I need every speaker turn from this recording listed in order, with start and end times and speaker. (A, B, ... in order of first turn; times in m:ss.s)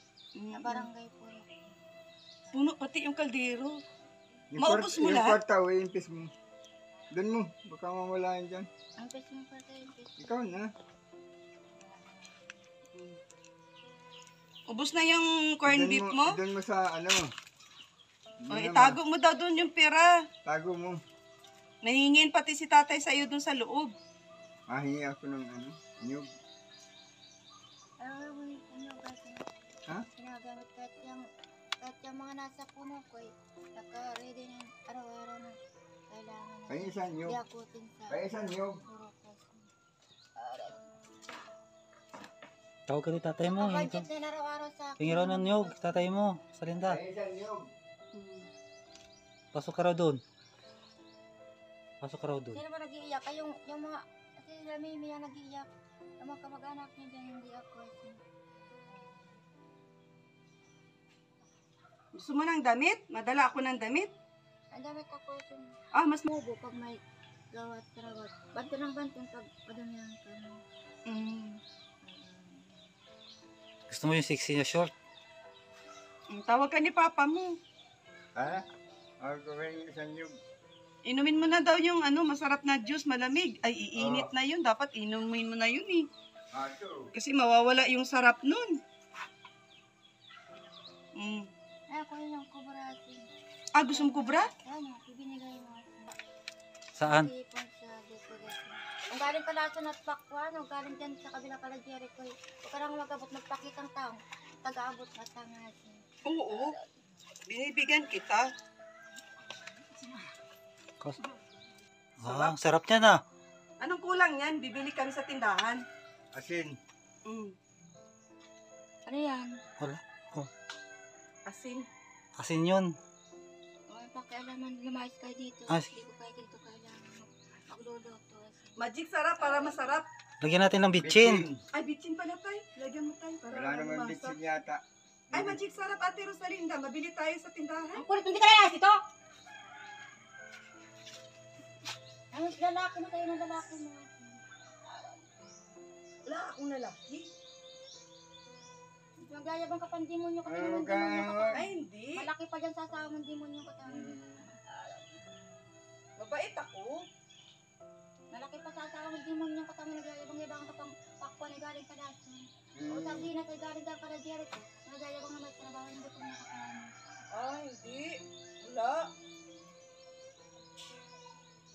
0:00.4-0:00.8 A
0:00.5-0:01.5 B
0:02.5-0:03.8 A
0:04.5-0:06.3 C
0:04.6-0:05.4 A
0:07.1-0:08.7 C
0:09.0-0:10.6 B
0:10.2-0:10.7 C
0:11.9-0:12.5 B
0:14.7-0:16.4 A
0:15.6-0:17.3 C
0:18.4-0:19.0 C
0:18.5-0:20.1 A
0:20.4-0:21.0 C
0:21.8-0:23.9 A
0:24.7-0:26.3 C
0:28.0-0:29.5 B
0:30.1-0:31.2 B
0:31.8-0:35.6 B
0:36.1-0:38.2 B
0:36.7-0:37.4 C
0:38.1-0:38.8 C
0:38.8-0:39.7 B
0:40.4-0:40.8 B
0:42.9-0:44.0 D
0:43.6-0:46.0 B
0:45.0-0:47.0 D
0:46.8-0:47.7 C
0:48.1-0:48.5 A
0:49.5-0:50.2 D
0:52.0-0:52.6 D
0:52.5-0:55.7 B
0:56.2-0:58.2 B
0:58.9-0:59.4 B
1:02.1-1:04.1 A
1:04.7-1:07.0 B
1:05.9-1:06.3 A
1:07.5-1:10.6 B
1:11.0-1:11.6 A
1:12.0-1:12.8 B
1:13.9-1:14.9 D
1:16.3-1:17.6 A
1:18.4-1:18.6 C
1:19.2-1:20.4 C
1:21.0-1:26.1 A
1:24.0-1:24.3 C
1:26.5-1:27.1 C
1:27.1-1:28.8 A
1:31.2-1:31.5 A
1:31.9-1:33.3 B
1:33.7-1:34.5 A
1:33.9-1:36.2 B
1:37.0-1:37.3 D
1:37.0-1:47.0 B
1:46.2-1:46.7 A
1:47.5-1:48.5 A
1:52.2-1:53.2 D
1:52.2-1:52.5 A
1:53.8-1:55.8 A
1:56.3-1:56.8 C
1:57.2-1:57.5 A
1:59.0-1:59.5 B
1:59.8-2:00.5 D
2:01.4-2:01.9 A
2:02.4-2:02.9 D
2:03.9-2:08.8 B
2:08.8-2:10.0 A
2:09.4-2:09.8 B
2:10.4-2:11.5 D
2:11.0-2:11.6 C
2:11.7-2:14.4 A
2:13.5-2:15.6 C
2:15.3-2:18.0 A
2:17.9-2:19.0 B
2:22.3-2:25.3 B
2:26.2-2:27.3 A
2:29.2-2:34.2 B
2:30.4-2:31.6 C
2:31.5-2:32.3 A
2:33.9-2:34.4 C
2:34.9-2:35.2 B
2:36.2-2:37.0 A
2:38.3-2:46.9 B
2:42.8-2:43.3 C
2:47.3-2:49.1 A